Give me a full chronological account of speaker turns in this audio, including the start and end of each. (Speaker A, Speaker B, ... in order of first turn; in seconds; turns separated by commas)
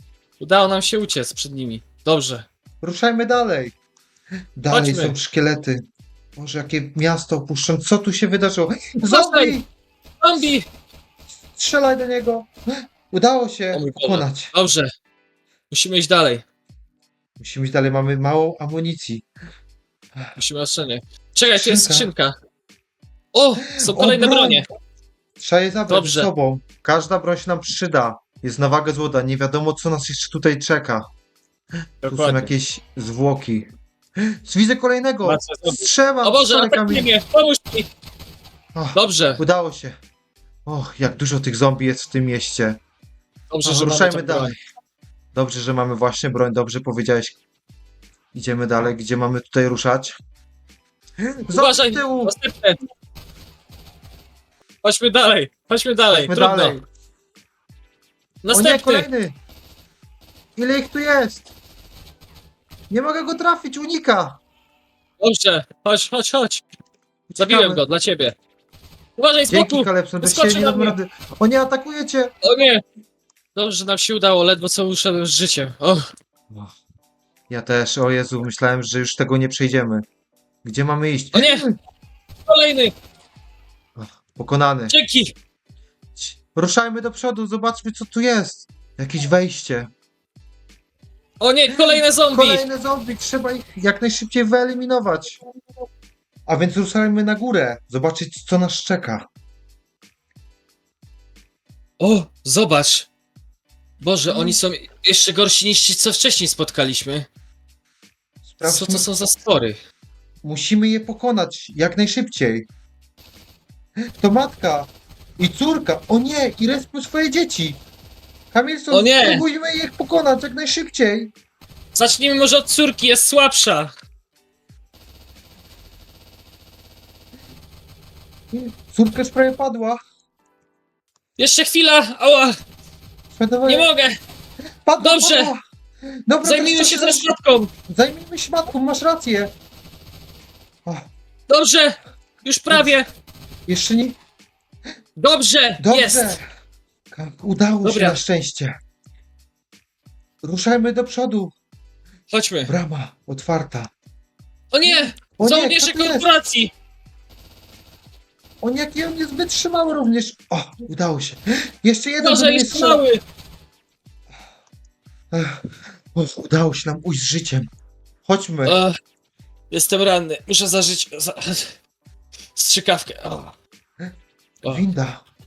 Speaker A: 0.4-2.5, Speaker B: 2.8-3.7, Speaker B: 4.6-5.8, Speaker A: 4.7-5.2, Speaker B: 6.4-9.7, Speaker A: 9.0-9.6, Speaker A: 10.2-10.7, Speaker B: 11.6-14.5, Speaker A: 13.7-14.9, Speaker A: 15.7-16.4, Speaker B: 17.4-19.2, Speaker A: 20.4-22.4, Speaker B: 21.6-22.1, Speaker A: 23.3-24.7, Speaker B: 23.7-24.7, Speaker B: 25.4-31.1, Speaker A: 25.9-26.3, Speaker A: 32.0-32.5, Speaker B: 32.1-33.7, Speaker B: 34.5-37.1, Speaker A: 35.2-37.9, Speaker B: 38.8-40.0, Speaker A: 38.9-39.4, Speaker B: 40.7-42.8, Speaker A: 43.5-44.6, Speaker B: 43.6-44.6, Speaker B: 45.3-47.4, Speaker B: 48.3-50.2, Speaker B: 51.2-52.3, Speaker A: 51.5-52.8, Speaker A: 54.8-56.8, Speaker B: 56.1-56.8, Speaker A: 58.4-59.1, Speaker B: 58.5-59.4, Speaker B: 60.6-61.5, Speaker B: 62.9-64.4, Speaker A: 65.2-66.6, Speaker B: 67.3-67.8, Speaker A: 67.4-68.3, Speaker A: 69.2-71.0, Speaker B: 69.5-72.3, Speaker A: 72.4-72.8, Speaker A: 73.5-76.1, Speaker B: 77.5-80.0, Speaker B: 80.6-81.8, Speaker A: 81.3-81.7, Speaker A: 82.5-82.9, Speaker B: 84.0-85.0, Speaker A: 84.9-85.3, Speaker B: 86.2-89.9, Speaker A: 91.4-92.6, Speaker B: 91.7-95.4, Speaker B: 96.5-99.2, Speaker A: 102.0-103.1, Speaker A: 104.0-107.3, Speaker B: 104.3-104.6, Speaker B: 108.5-109.1, Speaker A: 108.6-109.8, Speaker B: 110.4-112.7, Speaker B: 114.1-117.8, Speaker B: 118.5-121.3, Speaker A: 118.9-119.4, Speaker A: 122.0-123.9, Speaker B: 128.5-130.0, Speaker A: 131.4-132.6, Speaker B: 133.3-133.9, Speaker A: 133.7-134.1, Speaker B: 134.9-135.6, Speaker A: 135.0-135.5, Speaker B: 136.3-137.3, Speaker A: 136.4-137.7, Speaker B: 137.9-139.5, Speaker A: 141.5-143.1, Speaker B: 142.7-142.9, Speaker B: 143.7-144.2, Speaker A: 145.2-146.4, Speaker B: 145.8-146.4, Speaker B: 147.1-148.7, Speaker A: 147.8-148.2, Speaker B: 150.4-151.5, Speaker A: 152.3-152.7, Speaker B: 152.7-153.9, Speaker A: 154.7-156.7, Speaker B: 154.8-156.3, Speaker B: 158.6-163.0, Speaker A: 162.2-163.2, Speaker B: 165.3-167.7, Speaker B: 168.3-168.8, Speaker A: 168.7-168.9, Speaker A: 169.7-171.8, Speaker A: 172.6-173.6, Speaker B: 174.7-175.2